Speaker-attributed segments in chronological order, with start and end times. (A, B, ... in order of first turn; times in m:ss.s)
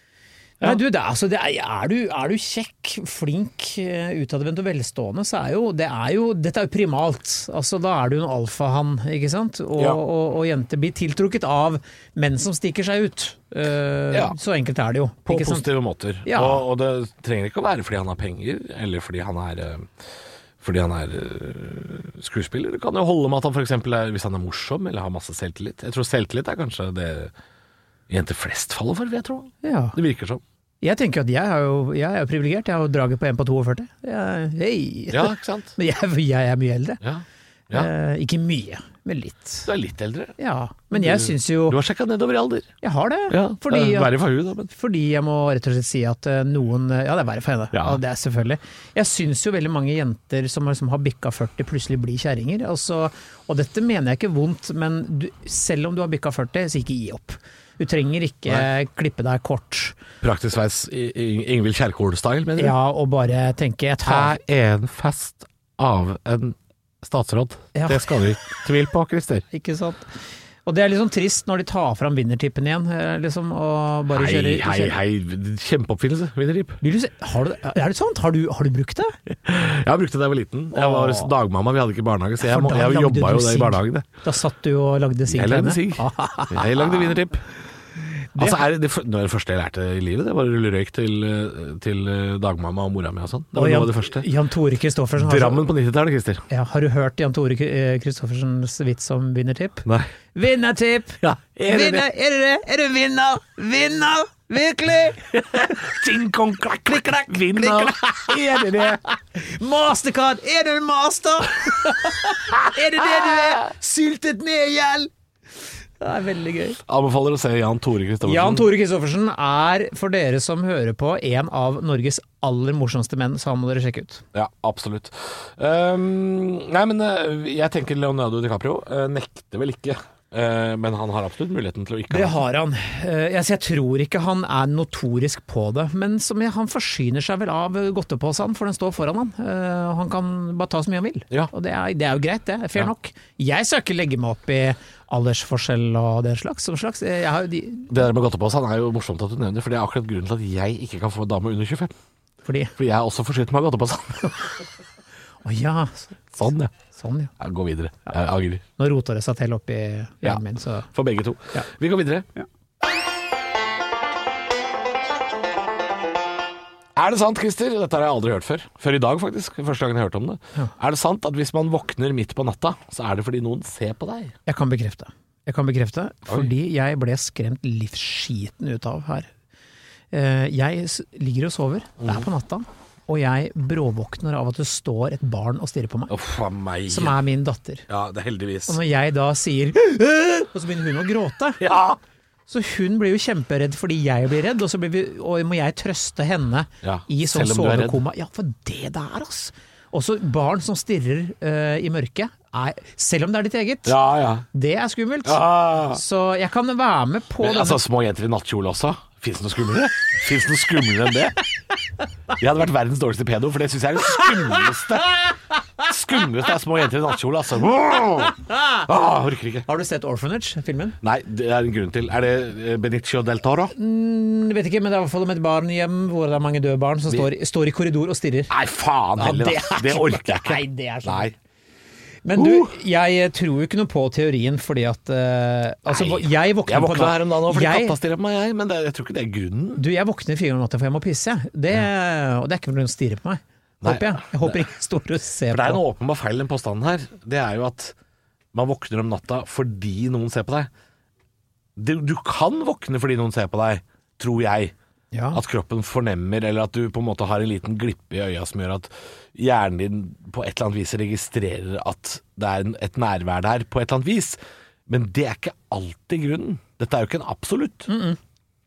0:00.6-0:15.7 A
0:09.8-0:10.0 B
0:15.2-0:20.0 B
0:16.2-0:16.6 A
0:20.6-0:27.3 B
0:28.1-0:30.4 B
0:29.6-0:30.0 A
0:30.8-0:37.0 A
0:35.1-0:35.8 B
0:37.0-0:37.9 B
0:37.7-0:39.7 A
0:39.6-0:40.4 B
0:40.4-0:41.8 A
0:40.9-0:42.7 B
0:42.8-0:44.2 A
0:43.3-0:44.7 B
0:44.7-1:00.0 A
0:47.7-0:48.0 B
1:00.2-1:02.8 B
1:02.6-1:04.3 A
1:04.0-1:09.4 B
1:07.7-1:08.1 A
1:09.5-1:10.1 A
1:10.6-1:15.0 A
1:14.1-1:16.8 B
1:16.8-1:19.1 A
1:19.4-1:24.1 B
1:20.7-1:21.3 A
1:22.4-1:27.2 A
1:25.3-1:27.5 B
1:28.3-1:28.6 A
1:28.4-1:34.3 B
1:33.5-1:35.6 A
1:35.2-1:36.4 B
1:36.5-1:45.9 A
1:41.2-1:42.0 B
1:45.3-1:49.0 B
1:47.2-1:55.1 A
1:56.0-1:56.8 A
1:56.8-1:58.7 B
1:58.2-2:04.2 A
2:04.3-2:12.4 B
2:12.1-2:27.9 A
2:27.9-2:31.9 B
2:32.4-2:32.7 A
2:32.8-2:34.5 B
2:35.4-2:36.3 A
2:36.3-2:36.7 B
2:36.9-2:37.3 A
2:37.4-2:38.6 B
2:38.8-2:40.9 A
2:40.2-2:42.3 B
2:47.0-2:54.3 B
2:54.4-2:59.3 A
3:00.1-3:06.1 A
3:06.1-3:07.2 B
3:06.9-3:07.9 A
3:07.9-3:08.8 B
3:08.7-3:11.6 A
3:11.6-3:12.0 B
3:12.5-3:24.0 A
3:16.8-3:18.0 B
3:23.8-3:24.4 B
3:24.5-3:27.8 A
3:25.2-3:26.0 B
3:27.4-3:31.4 B
3:32.4-3:39.6 B
3:38.4-3:38.8 A
3:39.6-3:41.0 A
3:41.0-3:43.7 B
3:43.7-3:48.5 A
3:48.5-3:51.3 B
3:49.2-3:51.3 A
3:52.2-3:58.0 A
3:52.3-3:52.8 B
3:55.9-3:59.8 B
3:59.8-4:05.8 A
4:03.8-4:04.6 B
4:05.5-4:07.9 B
4:08.5-4:10.7 B
4:11.8-4:14.7 B
4:15.1-4:15.4 A
4:15.3-4:27.9 B
4:27.9-4:28.2 A